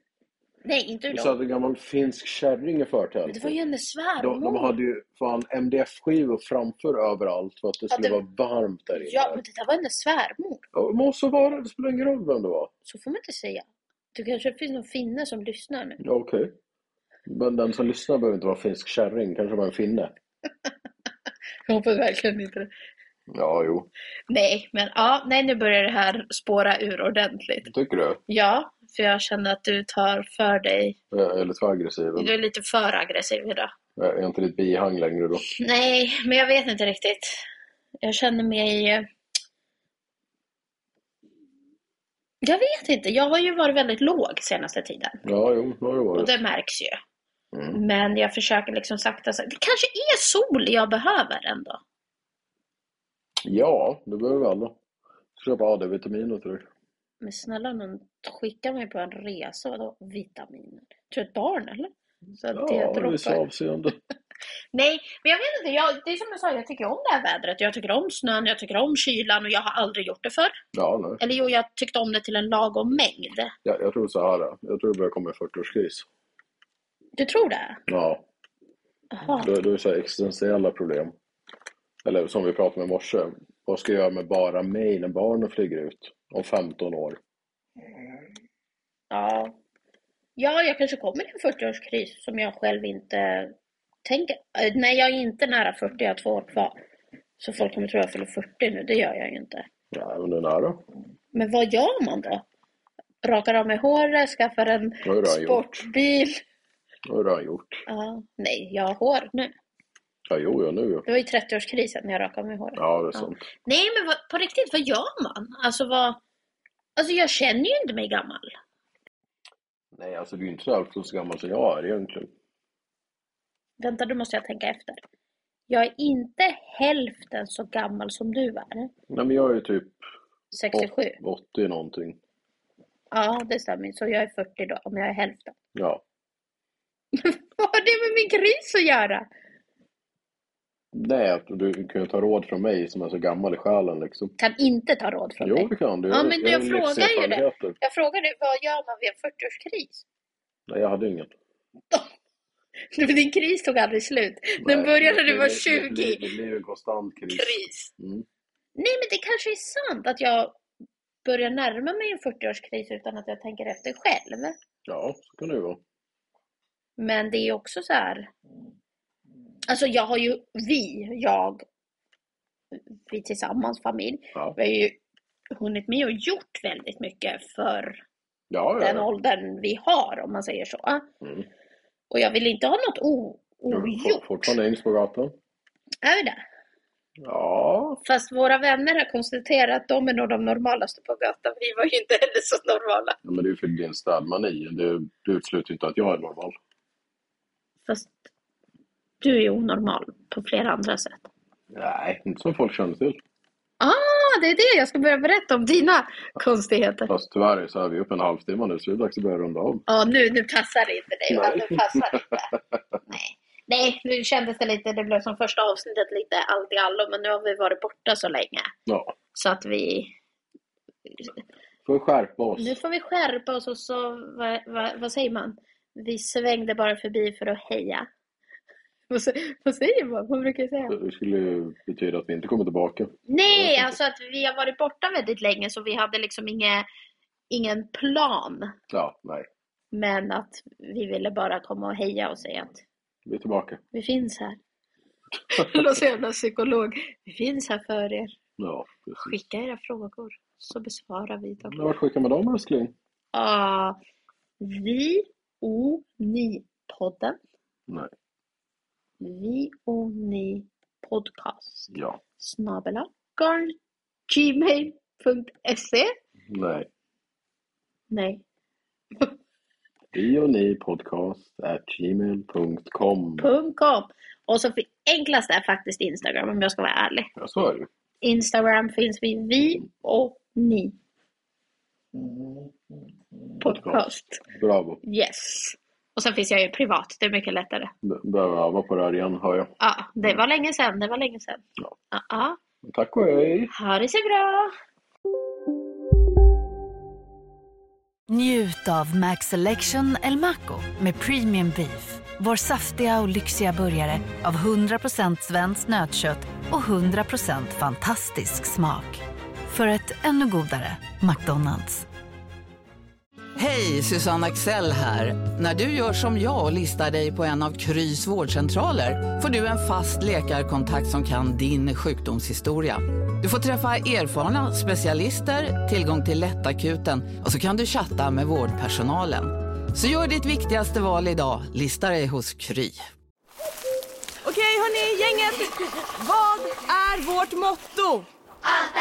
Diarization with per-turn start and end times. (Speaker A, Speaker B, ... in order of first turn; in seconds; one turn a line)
Speaker A: 0.6-1.4
Speaker B: 1.1-3.6
Speaker A: 3.3-4.8
Speaker B: 4.2-9.4
Speaker A: 7.9-8.2
Speaker A: 8.9-10.7
Speaker B: 10.7-12.7
Speaker A: 12.9-16.0
Speaker B: 16.0-16.5
Speaker B: 17.3-20.1
Speaker A: 21.7-22.7
Speaker B: 23.3-23.9
Speaker A: 24.3-27.7
Speaker B: 27.6-28.2
Speaker A: 28.3-31.0
Speaker B: 31.1-32.3
Speaker A: 32.2-33.7
Speaker B: 34.0-35.4
Speaker A: 35.4-37.4
Speaker A: 38.0-39.1
Speaker A: 42.4-45.2
Speaker B: 45.2-46.4
Speaker A: 46.1-47.0
Speaker B: 47.5-47.8
Speaker A: 47.7-51.8
Speaker B: 53.4-54.8
Speaker B: 55.4-56.7
Speaker A: 57.2-63.4
Speaker B: 62.5-64.0
Speaker A: 64.7-70.6
Speaker B: 70.7-71.2
Speaker A: 71.2-73.5
Speaker B: 73.7-76.1
Speaker A: 77.2-77.8
Speaker B: 77.9-78.2
Speaker A: 79.1-79.5
Speaker B: 79.2-81.1
Speaker B: 82.0-87.2
Speaker A: 89.1-89.6
Speaker A: 90.4-93.5
Speaker A: 94.0-96.8
Speaker A: 97.4-99.7
Speaker B: 99.9-100.8
Speaker A: 101.3-102.4
Speaker A: 103.2-106.4
Speaker B: 105.0-105.7
Speaker B: 107.1-107.8
Speaker A: 107.9-109.5
Speaker B: 110.3-111.0
Speaker A: 111.1-116.2
Speaker B: 112.8-113.5
Speaker A: 117.0-118.6
Speaker B: 120.0-122.3
Speaker A: 123.8-125.0
Speaker A: 125.7-128.9
Speaker B: 129.1-130.0
Speaker A: 130.5-131.2
Speaker B: 130.7-132.2
Speaker A: 133.1-135.6
Speaker B: 135.8-136.0
Speaker A: 137.1-139.3
Speaker B: 140.9-144.3
Speaker A: 144.4-150.0
Speaker B: 145.4-147.8
Speaker B: 150.7-151.3
Speaker A: 152.9-156.3
Speaker B: 154.6-158.3
Speaker A: 157.3-157.9
Speaker A: 158.8-160.6
Speaker A: 161.2-164.6
Speaker B: 164.9-165.8
Speaker A: 167.0-168.3
Speaker A: 169.7-171.6
Speaker A: 172.7-175.0
Speaker A: 175.5-178.0
Speaker B: 178.5-179.1
Speaker A: 178.8-181.1
Speaker B: 181.2-181.5
Speaker A: 182.1-184.6
Speaker B: 183.7-185.3
Speaker A: 186.0-186.4
Speaker B: 187.2-188.0
Speaker A: 188.0-193.2
Speaker B: 193.2-196.6
Speaker A: 197.9-198.2
Speaker A: 199.2-201.3
Speaker B: 201.7-203.2
Speaker A: 203.8-207.1
Speaker B: 207.1-209.8
Speaker A: 209.9-212.5
Speaker B: 211.3-212.8
Speaker A: 213.1-218.7
Speaker B: 218.9-219.1
Speaker A: 219.3-220.2
Speaker B: 221.8-222.8
Speaker A: 222.6-228.1
Speaker A: 229.1-231.0
Speaker B: 230.9-234.0
Speaker A: 233.3-236.9
Speaker A: 237.5-238.7
Speaker B: 238.9-239.5
Speaker A: 239.9-242.8
Speaker B: 243.3-243.8
Speaker A: 243.9-244.6
Speaker A: 245.5-248.3
Speaker B: 248.6-249.4
Speaker A: 249.2-251.8
Speaker B: 251.7-252.9
Speaker A: 253.3-254.0
Speaker A: 254.6-257.4
Speaker A: 259.2-263.8
Speaker B: 261.9-262.2
Speaker A: 264.3-266.1
Speaker B: 266.5-266.9
Speaker A: 268.1-268.4
Speaker B: 270.1-273.5
Speaker A: 273.4-277.3
Speaker B: 277.4-277.9
Speaker A: 278.2-281.0
Speaker A: 283.6-284.4
Speaker B: 283.6-285.0
Speaker A: 285.0-287.9
Speaker B: 288.0-289.7
Speaker A: 289.8-292.6
Speaker B: 292.8-293.7
Speaker A: 293.7-294.7
Speaker C: 298.3-312.1
Speaker D: 313.6-333.0
Speaker E: 334.4-338.3